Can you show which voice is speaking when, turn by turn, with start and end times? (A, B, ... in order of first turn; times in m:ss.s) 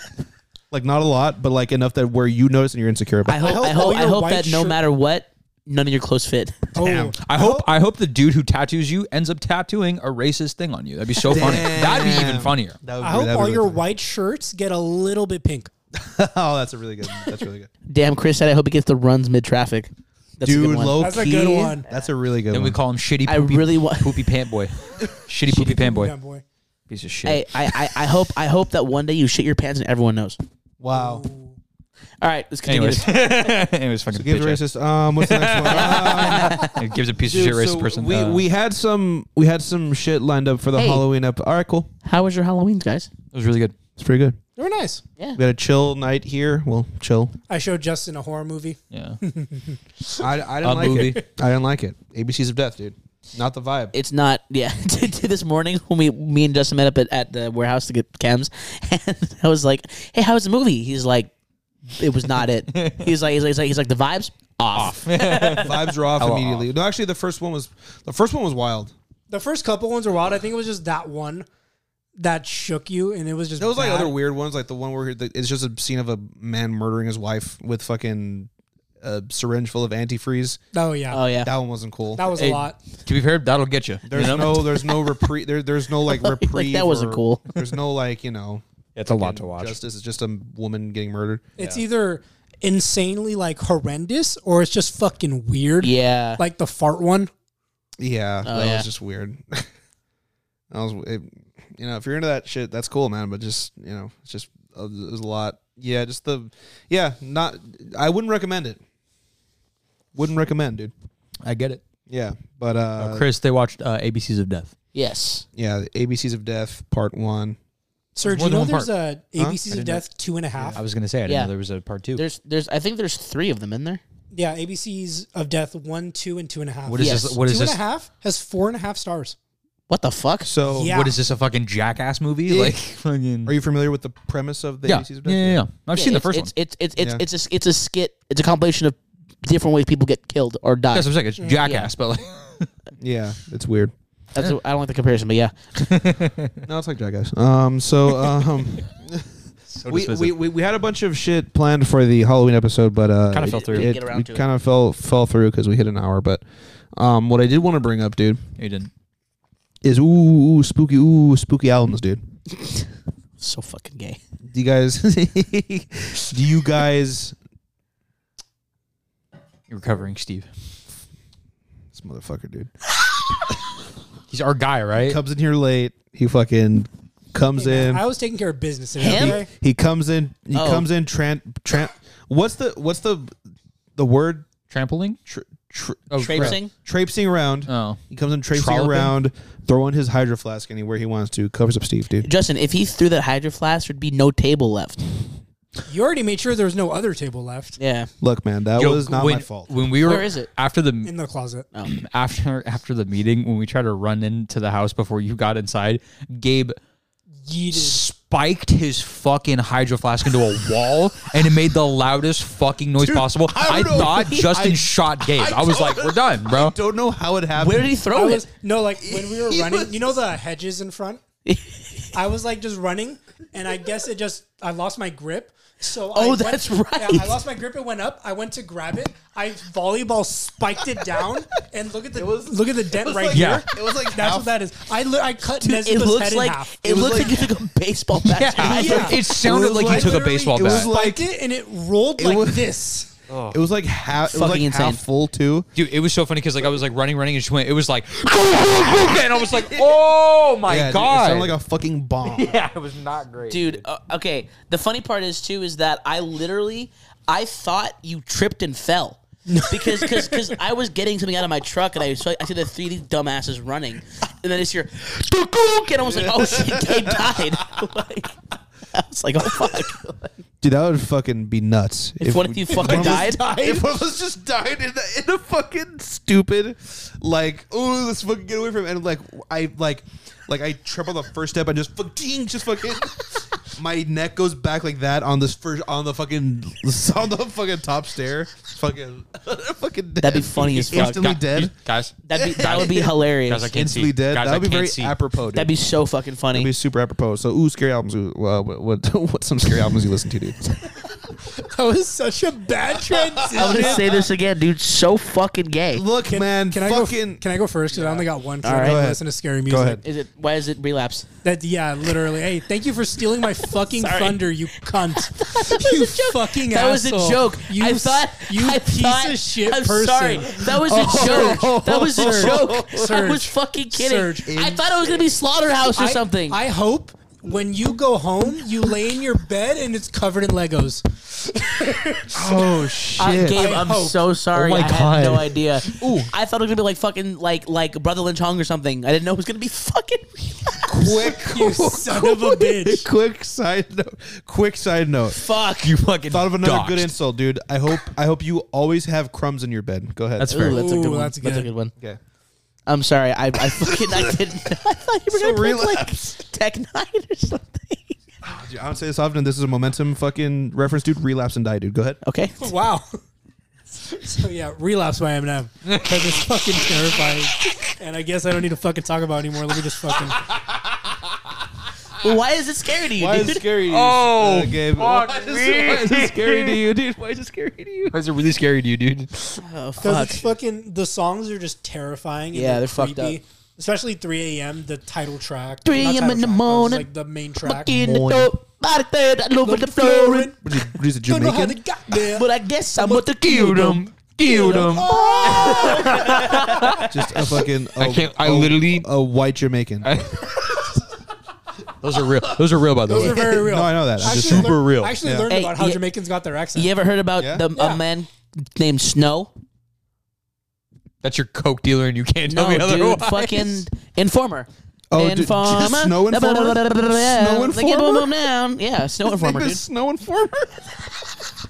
0:00.7-0:04.0 A
0:03.2-0:06.7 B
0:03.4-0:04.8 C
0:06.8-0:07.2 C
0:06.8-0:07.7 A
0:07.2-0:12.8 D
0:11.2-0:13.8 A
0:13.0-0:15.7 C
0:15.9-0:17.7 A
0:17.9-0:21.0 B
0:20.4-0:22.8 A
0:21.0-0:21.9 C
0:22.5-0:26.1 D
0:23.2-0:24.2 B
0:25.5-0:26.4 C
0:26.9-0:27.9 D
0:27.2-0:30.4 B
0:30.8-0:31.2 A
0:30.9-0:31.6 C
0:32.2-0:33.5 B
0:32.7-0:34.6 D
0:34.1-0:36.7 A
0:35.2-0:38.4 D
0:35.8-0:36.8 B
0:37.2-0:41.9 A
0:40.7-0:41.0 B
0:42.0-0:43.1 B
0:43.3-0:43.7 D
0:44.0-0:44.4 A
0:44.6-0:45.0 C
0:45.4-0:47.3 A
0:47.5-0:49.8 C
0:48.9-0:49.2 D
0:50.2-0:53.9 A
0:50.6-0:51.2 D
0:50.8-0:51.2 C
0:53.9-1:01.3 B
1:01.9-1:05.7 B
1:02.7-1:03.1 D
1:04.7-1:06.7 D
1:05.6-1:08.9 A
1:09.3-1:11.5 C
1:12.2-1:14.1 C
1:13.6-1:18.5 A
1:19.0-1:20.6 A
1:20.7-1:21.2 C
1:21.1-1:21.5 B
1:21.4-1:22.4 A
1:22.1-1:22.8 C
1:22.3-1:24.8 D
1:24.0-1:28.6 A
1:26.1-1:27.5 B
1:29.0-1:29.8 D
1:29.2-1:31.5 A
1:31.6-1:37.3 C
1:35.8-1:36.4 B
1:38.0-1:39.7 A
1:38.4-1:38.9 B
1:40.7-1:48.8 A
1:50.1-1:50.9 A
1:51.4-1:51.8 D
1:52.1-1:53.2 A
1:53.0-1:54.7 D
1:54.9-1:55.4 B
1:55.6-1:57.6 A
1:58.2-2:00.8 C
1:58.2-1:58.9 D
1:59.7-2:00.0 D
2:00.7-2:02.2 D
2:01.2-2:01.5 B
2:02.1-2:04.0 B
2:04.3-2:09.4 C
2:06.8-2:07.8 D
2:07.0-2:07.4 B
2:09.9-2:10.5 B
2:10.4-2:11.0 A
2:10.7-2:11.2 C
2:10.8-2:13.5 D
2:12.4-2:12.8 A
2:13.4-2:15.6 A
2:14.8-2:16.5 D
2:15.9-2:21.1 B
2:17.0-2:17.2 A
2:20.9-2:22.7 D
2:21.6-2:21.9 B
2:23.0-2:23.9 A
2:24.3-2:25.5 B
2:25.8-2:26.5 D
2:26.6-2:29.3 A
2:29.7-2:30.3 D
2:29.8-2:36.4 A
2:33.3-2:33.9 D
2:33.4-2:34.4 B
2:37.0-2:38.4 A
2:38.6-2:38.9 D
2:39.8-2:42.2 A
2:42.5-2:42.9 B
2:43.4-2:44.2 B
2:44.5-2:47.3 A
2:49.7-2:50.5 D
2:51.9-2:52.7 A
2:54.3-2:55.2 D
2:55.0-2:58.0 A
2:57.6-2:59.5 C
2:59.0-2:59.4 B
2:59.0-3:03.3 A
3:00.5-3:00.8 B
3:04.0-3:04.5 A
3:04.7-3:05.2 D
3:05.3-3:12.3 A
3:06.1-3:06.6 D
3:06.2-3:06.7 B
3:07.7-3:08.0 D
3:08.5-3:09.1 D
3:12.2-3:15.0 B
3:15.9-3:17.8 C
3:17.8-3:18.1 B
3:18.2-3:19.8 A
3:18.8-3:21.1 D
3:20.0-3:20.5 B
3:21.0-3:21.6 C
3:21.8-3:26.8 D
3:27.4-3:28.0 C
3:27.7-3:36.7 D
3:33.0-3:38.0 A
3:37.6-3:38.5 B
3:38.1-3:41.2 C
3:39.0-3:40.0 A
3:41.4-3:42.1 B
3:42.1-3:57.3 C
3:46.1-3:47.4 B
3:52.1-3:54.5 A
3:53.3-3:53.7 D
3:55.6-3:59.3 B
3:56.8-3:57.4 A
3:58.2-4:01.0 D
3:58.6-4:03.1 C
3:59.2-4:01.2 A
4:02.2-4:02.7 A
4:03.3-4:03.6 D
4:03.5-4:05.7 A
4:04.3-4:05.0 B
4:05.7-4:11.5 D
4:09.5-4:10.0 A
4:10.6-4:12.6 A
4:12.2-4:13.8 D
4:13.5-4:28.4 B
4:19.5-4:20.5 C
4:26.0-4:27.9 A
4:28.9-4:30.4 B
4:29.5-4:29.8 A
4:30.6-4:51.7 A
4:32.2-4:33.5 B
4:32.8-4:33.8 C
4:50.2-4:51.3 B
4:50.9-4:55.1 D
4:52.2-4:53.8 B
4:52.3-4:53.1 A
4:53.7-4:55.7 A
4:55.5-4:56.7 B
4:56.5-5:00.6 A
5:01.5-5:04.2 C
5:03.2-5:04.2 A
5:03.5-5:06.0 B
5:05.9-5:07.4 A
5:06.2-5:10.0 C
5:08.6-5:09.0 B
5:08.7-5:10.0 A
5:10.0-5:11.3 B
5:11.4-5:24.5 C
5:13.8-5:14.4 B
5:15.0-5:26.6 B
5:20.7-5:23.2 A
5:24.4-5:25.2 A
5:25.9-5:32.6 C
5:32.3-5:33.6 A
5:32.7-5:33.0 D
5:33.2-5:34.2 C
5:33.2-5:41.3 B
5:34.5-5:36.0 D
5:35.9-5:36.3 A
5:40.9-5:45.4 A
5:41.4-5:43.0 C
5:45.3-5:45.9 B
5:45.8-5:47.1 D
5:46.3-5:50.5 A
5:50.4-5:50.8 D
5:50.5-5:51.9 B
5:50.6-5:51.7 C
5:52.9-5:58.2 B
5:53.6-5:54.6 A
5:55.3-5:56.2 A
5:58.4-6:02.2 A
6:02.2-6:02.7 B
6:02.6-6:03.2 C
6:04.0-6:10.4 C
6:05.8-6:06.8 D
6:10.3-6:11.2 D
6:12.2-6:13.6 B
6:13.2-6:18.2 A
6:13.8-6:16.8 D
6:18.1-6:19.6 D
6:19.6-6:20.4 B
6:20.0-6:27.9 C
6:22.5-6:23.4 B
6:25.8-6:27.0 B
6:27.6-6:30.6 B
6:27.9-6:28.5 A
6:29.6-6:30.6 C
6:30.6-6:31.8 A
6:31.2-6:33.3 C
6:32.2-6:34.0 B
6:33.4-6:37.1 D
6:34.4-6:36.9 C
6:34.6-6:37.0 B
6:37.1-6:40.1 A
6:38.0-6:39.1 D
6:40.0-6:41.0 D
6:42.0-6:43.6 D
6:43.1-6:46.9 C
6:43.2-6:45.5 A
6:44.2-6:45.2 D
6:45.5-6:46.0 B
6:46.7-6:49.5 B
6:47.4-6:47.6 A
6:47.7-6:48.0 C
6:51.2-6:53.8 D
6:52.5-6:59.8 B
6:55.1-6:58.4 A
6:59.2-7:01.1 A